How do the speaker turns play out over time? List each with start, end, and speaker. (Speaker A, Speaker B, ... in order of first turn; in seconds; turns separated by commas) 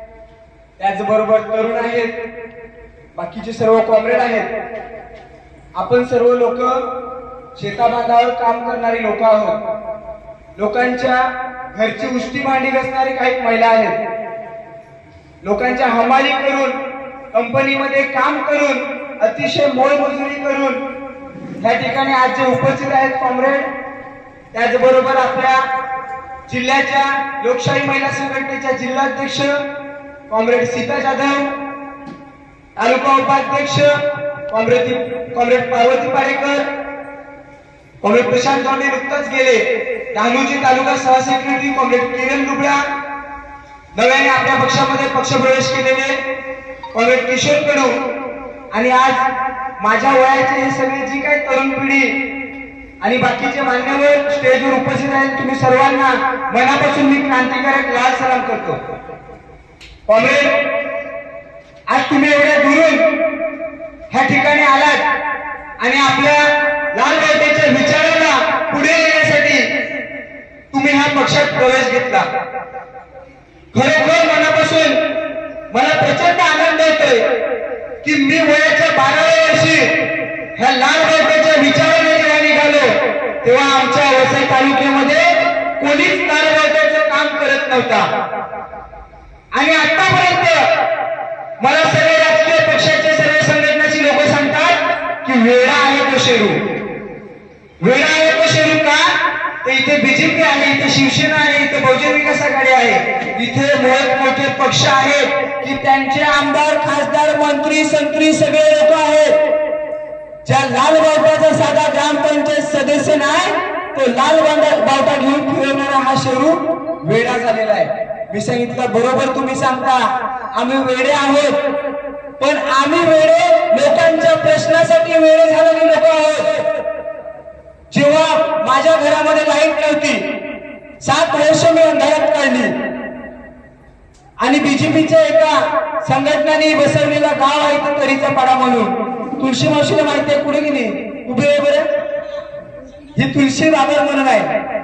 Speaker A: 0.8-2.1, Speaker A: 3.1-4.5, Speaker A: 5.7-6.8, Speaker A: 7.5-9.6, Speaker A: 10.6-13.9, Speaker A: 15.4-16.8, Speaker A: 17.3-20.8, Speaker A: 21.6-23.7, Speaker A: 24.5-25.6, Speaker A: 26.5-29.6, Speaker A: 30.3-31.5, Speaker A: 32.8-34.0, Speaker A: 34.5-36.6, Speaker A: 38.0-42.9, Speaker A: 43.9-46.2, Speaker A: 46.9-48.0, Speaker A: 48.7-49.2, Speaker A: 49.8-52.1, Speaker A: 53.0-58.8, Speaker A: 60.1-60.5, Speaker A: 61.9-63.1, Speaker A: 64.1-65.0, Speaker A: 65.8-69.7, Speaker A: 70.7-72.3, Speaker A: 73.7-75.0, Speaker A: 75.7-77.3, Speaker A: 78.0-80.0, Speaker A: 80.5-88.1, Speaker A: 89.5-90.7, Speaker A: 91.6-96.6, Speaker A: 97.8-109.3, Speaker A: 110.4-121.6, Speaker A: 122.4-126.6, Speaker A: 127.9-130.2, Speaker A: 131.0-132.8, Speaker A: 134.4-141.9, Speaker A: 143.1-144.5